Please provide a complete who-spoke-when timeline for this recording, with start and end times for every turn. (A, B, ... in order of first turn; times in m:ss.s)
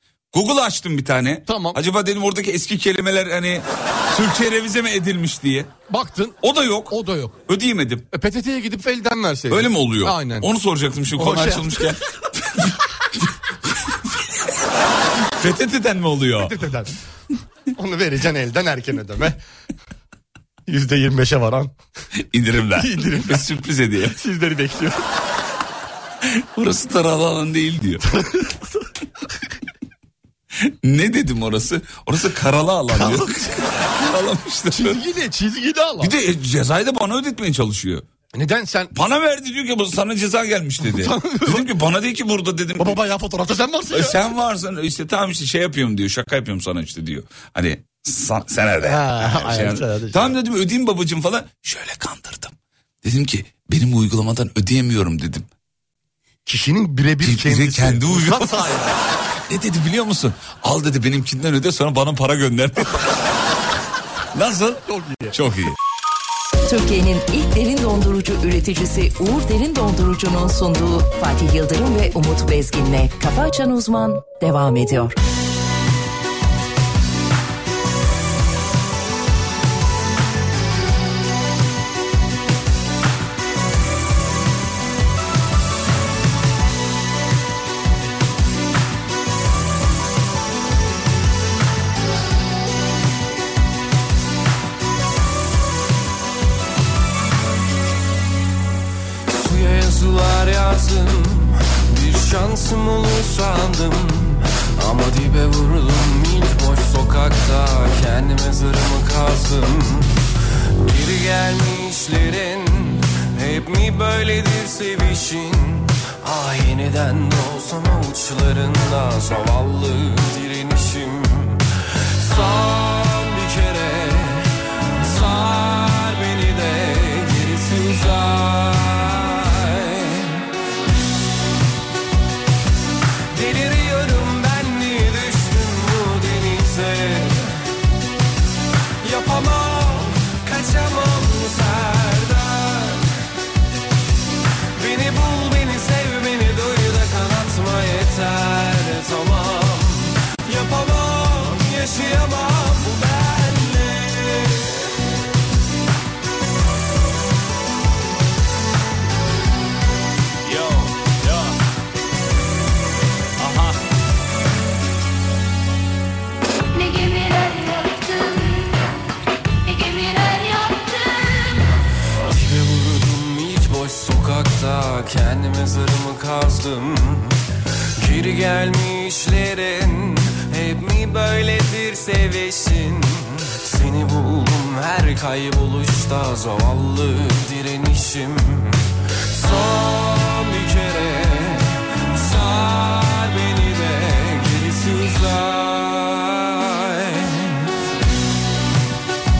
0:00.3-0:05.7 A
0:01.5-0:01.8 B
0:05.9-0:06.4 B
0:06.4-0:06.9 A
0:06.9-0:07.4 B
0:07.5-0:08.0 A
0:08.1-0:10.5 B
0:09.5-0:13.3 A
0:11.1-0:11.9 B
0:15.2-0:16.5 A
0:16.4-0:16.9 B
0:17.8-0:19.4 B
0:20.7-0:21.7 B
0:22.3-0:24.2 A
0:22.8-0:23.4 B
0:24.1-0:25.0 B
0:26.2-0:28.0 A
0:28.0-0:28.8 B
0:30.6-0:35.0 A
0:32.9-0:33.3 B
0:34.7-0:36.1 B
0:36.0-0:38.0 A
0:38.3-0:38.9 B
0:38.9-0:43.0 A
0:40.8-0:41.7 B
0:42.8-0:44.2 B
0:43.9-0:55.5 A
0:48.8-0:50.4 B
0:56.4-0:59.0 B
0:57.2-0:58.7 A
0:59.5-1:03.2 A
1:04.3-1:05.8 A
1:04.9-1:05.4 B
1:06.6-1:15.2 C
1:39.3-1:50.2 D
1:50.8-2:10.5 D
2:13.3-2:17.5 D
2:19.0-2:23.1 D
2:24.8-2:34.8 D
2:40.4-2:41.5 A
2:43.4-2:43.8 A
2:46.7-2:48.8 E
2:49.6-2:51.6 E
2:52.2-2:57.4 D
2:58.0-3:17.7 D